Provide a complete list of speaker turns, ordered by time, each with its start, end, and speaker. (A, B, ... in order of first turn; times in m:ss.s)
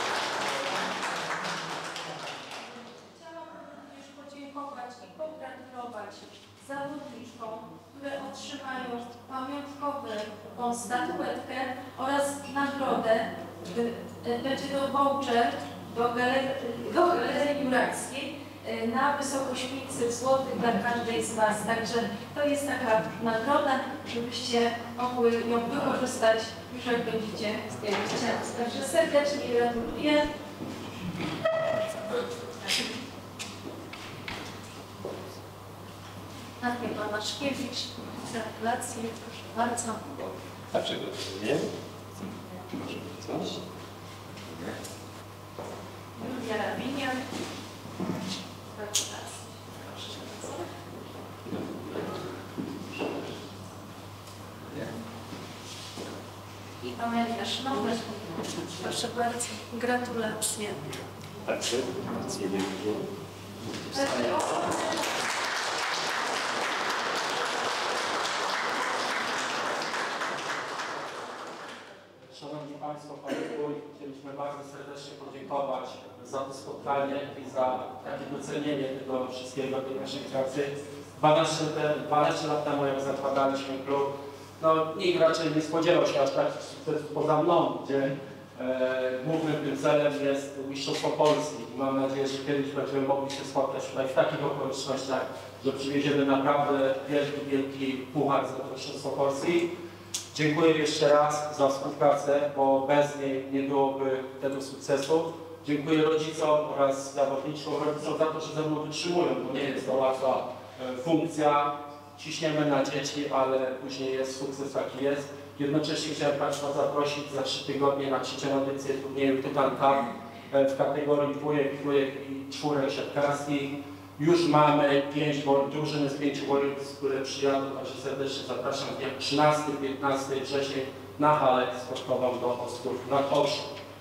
0:03.0-0:30.3 A
0:36.6-0:40.2 A
0:40.7-0:41.7 B
0:42.8-0:43.5 B
0:46.2-0:47.2 A
0:48.7-0:50.6 A
0:56.8-1:00.8 A
1:01.4-1:03.0 B
1:03.7-1:04.4 B
1:03.9-1:05.1 A
1:12.3-1:39.7 C
1:40.3-2:13.7 C